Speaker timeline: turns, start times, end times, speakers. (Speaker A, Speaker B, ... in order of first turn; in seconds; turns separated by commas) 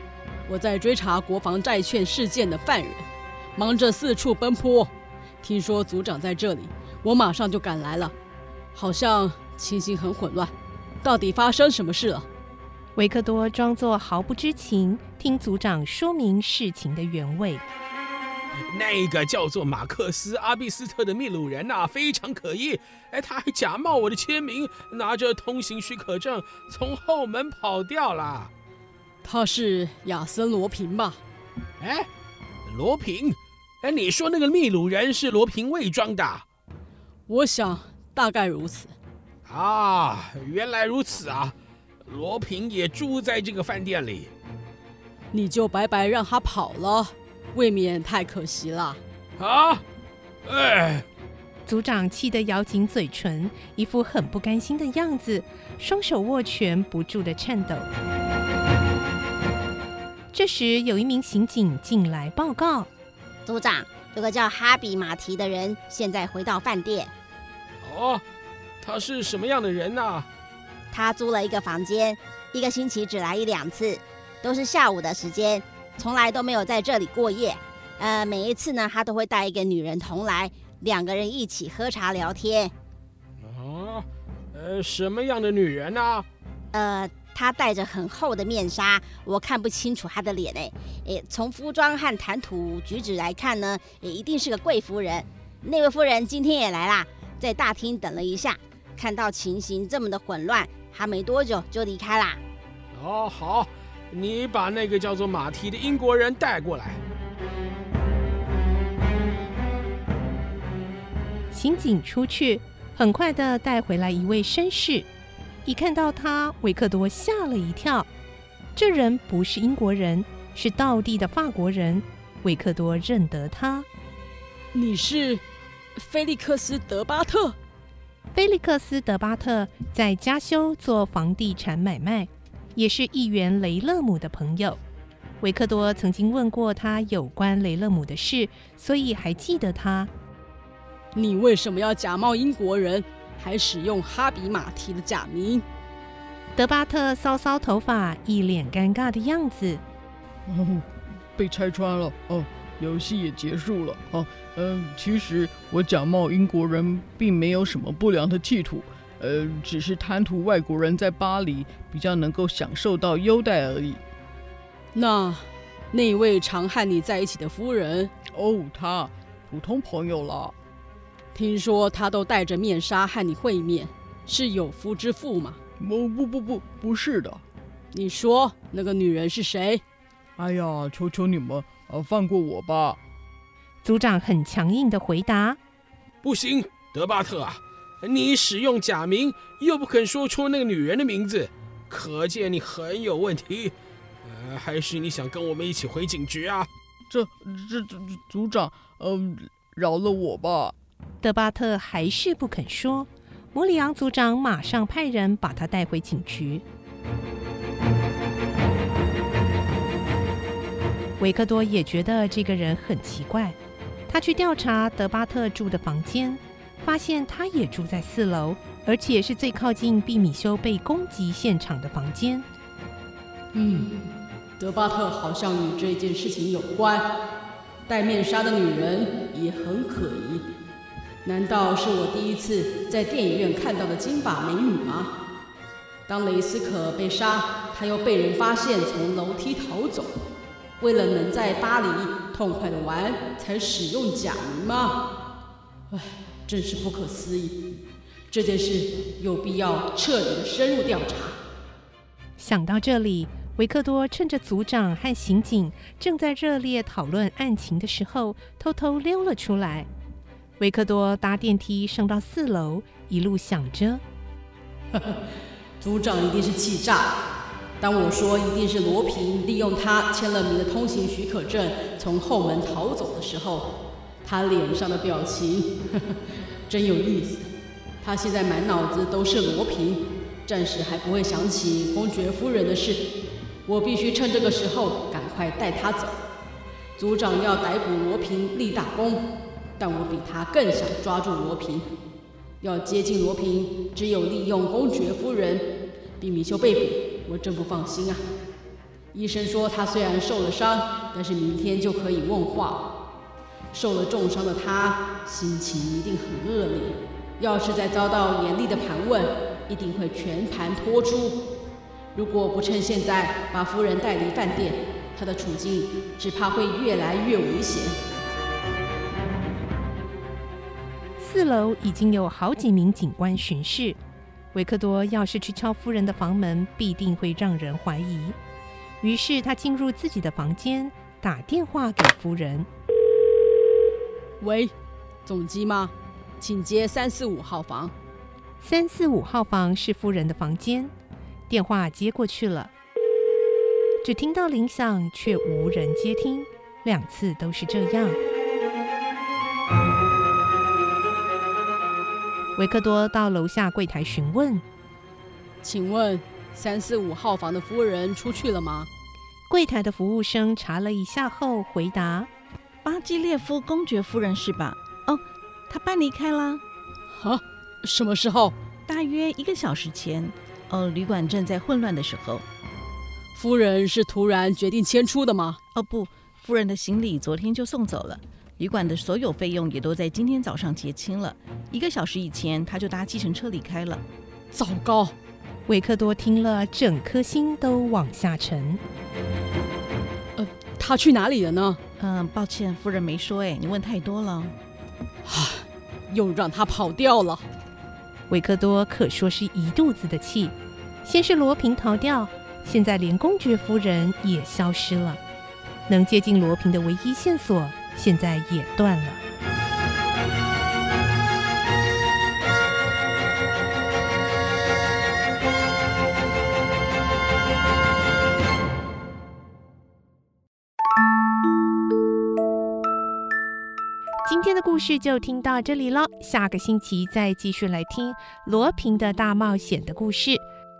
Speaker A: 0.5-4.9, Speaker A: 5.4-8.1, Speaker A: 8.7-12.2, Speaker B: 12.9-17.6, Speaker C: 18.7-28.5, Speaker A: 29.2-31.2, Speaker C: 31.8-32.1, Speaker C: 32.7-36.4, Speaker A: 37.3-38.9, Speaker C: 39.5-41.5, Speaker C: 42.0-44.3, Speaker A: 45.3-49.0, Speaker C: 49.4-49.8, Speaker C: 50.5-51.0, Speaker B: 51.6-57.9, Speaker B: 60.3-62.9, Speaker D: 63.5-67.1, Speaker C: 67.8-68.2, Speaker C: 68.8-70.3, Speaker D: 70.9-82.7, Speaker C: 83.4-86.2, Speaker D: 86.7-102.4, Speaker C: 102.9-107.0, Speaker B: 111.5-115.1, Speaker B: 115.6-118.1, Speaker B: 118.8-123.9, Speaker A: 124.7-125.4, Speaker A: 126.0-127.6, Speaker B: 128.3-134.8, Speaker B: 135.4-140.1, Speaker A: 141.1-145.6, Speaker B: 146.6-149.8, Speaker E: 150.5-164.0, Speaker A: 164.9-168.1, Speaker E: 168.3-170.6, Speaker A: 171.3-175.6, Speaker E: 175.8-177.4, Speaker A: 177.9-179.8, Speaker E: 180.3-183.0, Speaker B: 183.8-185.6, Speaker C: 186.2-193.7, Speaker C: 194.2-196.7, Speaker E: 197.1-200.8, Speaker B: 201.2-206.6, Speaker B: 211.2-213.6, Speaker B: 214.1-222.4, Speaker A: 223.5-223.9, Speaker A: 224.6-227.1, Speaker A: 227.9-230.4, Speaker A: 231.2-235.1, Speaker A: 236.1-240.2, Speaker A: 240.8-245.0, Speaker A: 245.9-247.6, Speaker A: 248.3-251.4, Speaker B: 252.4-259.9, Speaker B: 260.6-264.0, Speaker A: 264.9-265.2, Speaker A: 265.8-267.1, Speaker A: 267.8-273.7, Speaker A: 274.2-277.5, Speaker A: 278.0-283.0, Speaker A: 283.7-286.2, Speaker A: 287.0-289.2, Speaker A: 289.8-291.9, Speaker A: 292.6-295.6, Speaker A: 296.2-298.2, Speaker A: 299.1-302.8, Speaker A: 303.7-311.4, Speaker A: 312.1-317.9, Speaker B: 321.2-324.0, Speaker B: 324.5-328.4, Speaker B: 329.0-332.7, Speaker A: 334.4-334.7, Speaker A: 335.2-337.9, Speaker B: 338.6-340.9, Speaker B: 341.5-342.7, Speaker B: 344.0-348.2, Speaker B: 352.6-354.6, Speaker A: 355.6-358.9, Speaker B: 359.5-362.3, Speaker F: 362.8-366.6, Speaker A: 367.1-368.5, Speaker F: 368.9-372.4, Speaker A: 373.4-375.6, Speaker F: 375.7-384.0, Speaker A: 384.5-385.1, Speaker B: 385.7-388.8, Speaker A: 390.4-391.8, Speaker F: 392.0-394.6, Speaker A: 395.2-397.4, Speaker B: 398.3-405.2, Speaker B: 405.9-409.2, Speaker B: 424.2-430.4